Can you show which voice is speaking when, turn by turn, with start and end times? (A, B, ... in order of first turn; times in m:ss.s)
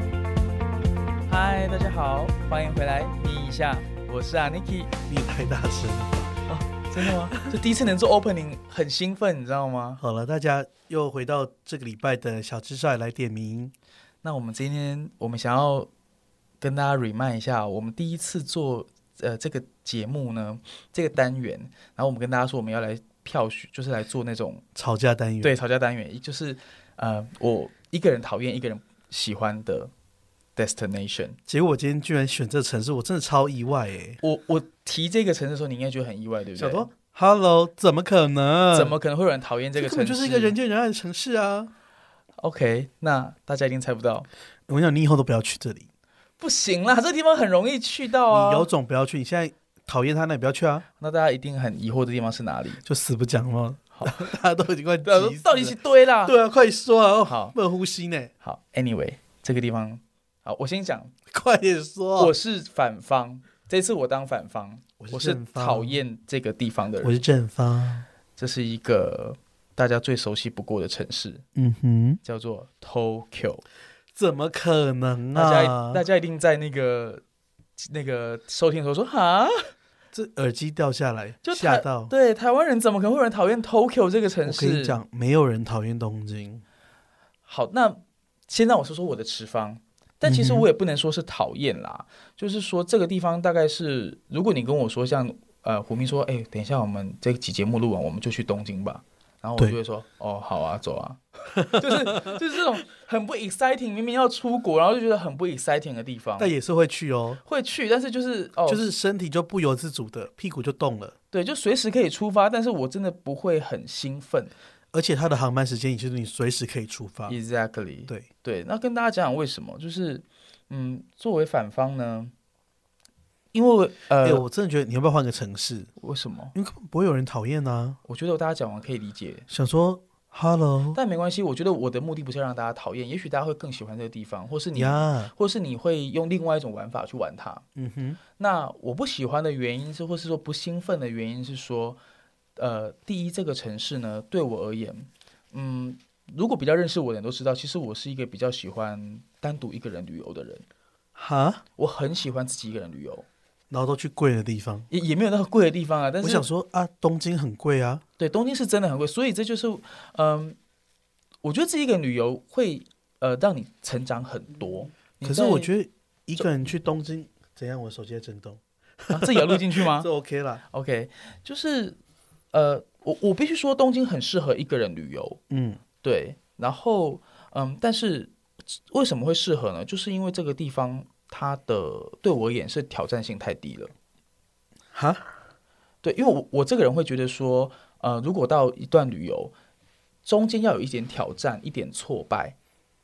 0:01.3-0:04.9 A
0:05.0-0:06.3 B
0:06.5-0:10.0 A
0:10.0-0:13.7 B
0:14.2-0:15.9 A
0:16.6-0:24.6 A
0:24.7-0:25.5 B
0:25.4-0:29.9 A
0:30.6-0:31.4 A
0:31.5-0:34.2 B
0:34.2-0:36.9 A
0:36.6-0:38.9 B
0:38.7-0:40.5 A
0:39.8-0:41.7 B
0:42.4-0:44.3 A
0:44.7-0:45.9 B
0:46.4-0:48.7 A
0:48.3-0:50.8 B
0:51.0-0:52.8 A
0:52.8-0:58.3 B
0:53.9-0:54.3 A
0:55.0-0:56.3 A
0:57.2-0:57.5 A
0:58.4-1:01.1 A
1:01.3-1:02.3 B
1:02.2-1:07.2 A
1:05.0-1:06.0 B
1:07.0-1:08.0 B
1:08.4-1:11.4 A
1:11.5-1:12.2 B
1:12.2-1:13.6 A
1:14.2-1:16.0 B
1:15.3-1:17.2 A
1:17.8-1:19.7 A
1:20.1-1:22.1 B
1:21.4-1:25.0 A
1:24.4-1:26.6 B
1:27.5-1:46.5 A
1:30.2-1:30.7 B
1:41.6-1:42.3 B
1:46.4-1:47.4 B
1:47.4-1:48.9 A
1:48.7-1:51.1 B
1:51.3-1:54.5 A
1:54.9-1:57.3 B
1:57.3-2:02.3 A
2:03.5-2:04.4 A
2:04.2-2:05.9 B
2:06.0-2:06.5 A
2:06.5-2:08.0 B
2:08.0-2:09.5 A
2:09.5-2:11.0 B
2:10.9-2:17.6 A
2:14.7-2:15.3 B
2:17.7-2:18.2 B
2:18.4-2:22.0 A
2:22.6-2:30.6 A
2:31.2-2:31.6 B
2:31.8-2:33.2 A
2:33.7-2:34.9 B
2:34.9-2:36.5 A
2:36.2-2:38.0 B
2:38.2-2:40.6 A
2:41.4-2:45.7 A
2:45.2-2:50.6 B
2:49.1-2:50.1 A
2:50.7-2:52.0 A
2:52.5-2:55.4 A
2:55.5-2:55.8 B
2:56.0-3:03.9 A
3:04.9-3:05.3 B
3:06.0-3:09.5 A
3:10.2-3:12.6 A